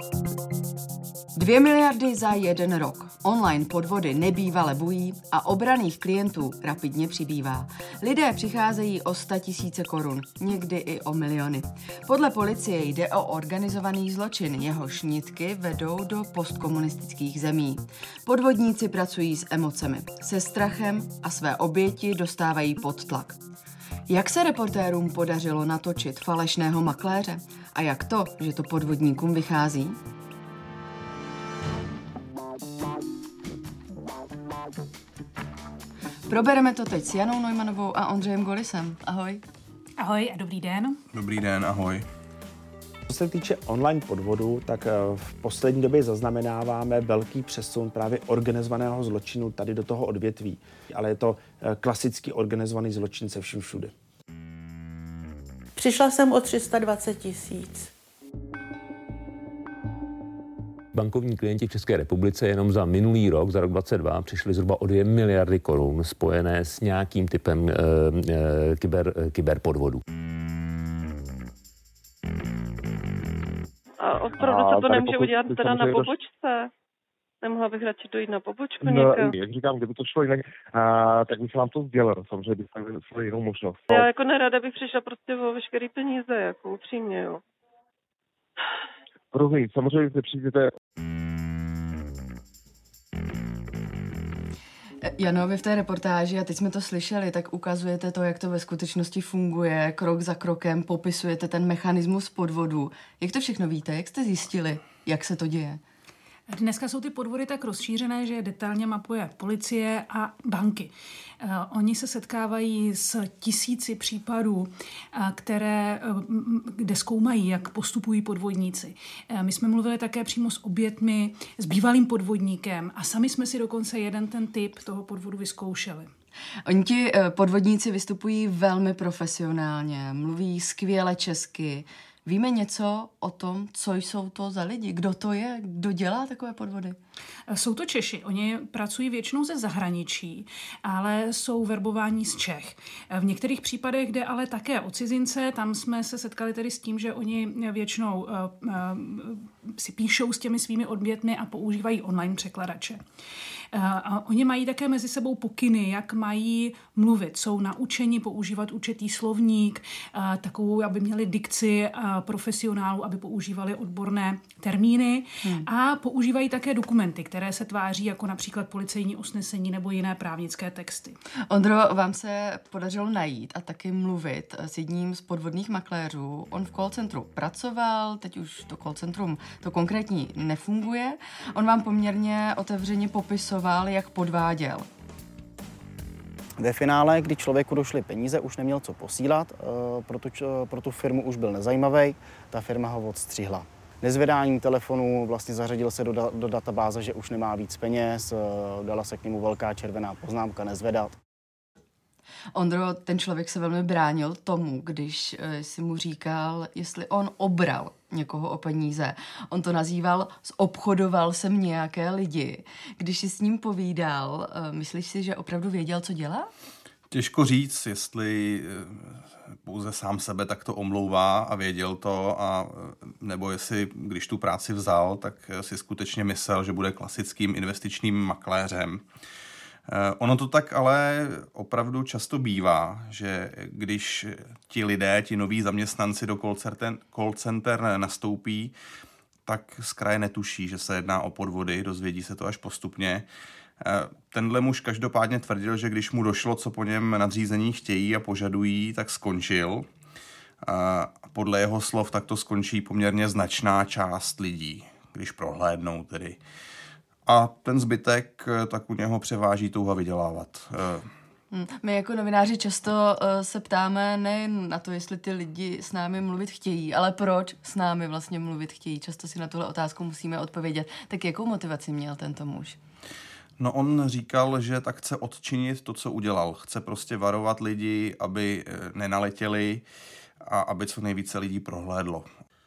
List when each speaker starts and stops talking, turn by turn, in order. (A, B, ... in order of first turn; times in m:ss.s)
0:01.3-0:23.4 A
0:24.1-0:30.0 A
0:36.3-0:39.4 A
0:40.0-0:41.0 B
0:41.1-0:42.0 C
0:43.1-0:53.9 D
0:55.7-0:57.9 E
1:00.9-1:10.0 F
1:14.0-1:16.7 G
1:14.4-1:16.1 H
1:17.4-1:19.3 G
1:18.8-1:24.1 H
1:23.9-1:27.4 G
1:29.3-1:30.7 H
1:35.0-1:45.8 A
1:46.5-2:06.1 B
2:06.6-2:17.0 A
2:17.5-2:33.0 B
2:33.7-2:51.2 B
2:51.5-3:04.9 A
3:06.6-3:21.1 I
3:22.5-3:36.5 A
3:37.1-3:49.0 C
3:49.9-3:58.7 C
3:59.4-4:03.2 C
4:03.8-4:09.9 C
4:10.6-4:16.4 C
4:17.3-4:21.1 C
4:21.5-4:32.8 A
4:33.6-4:39.8 C
4:40.4-4:42.3 C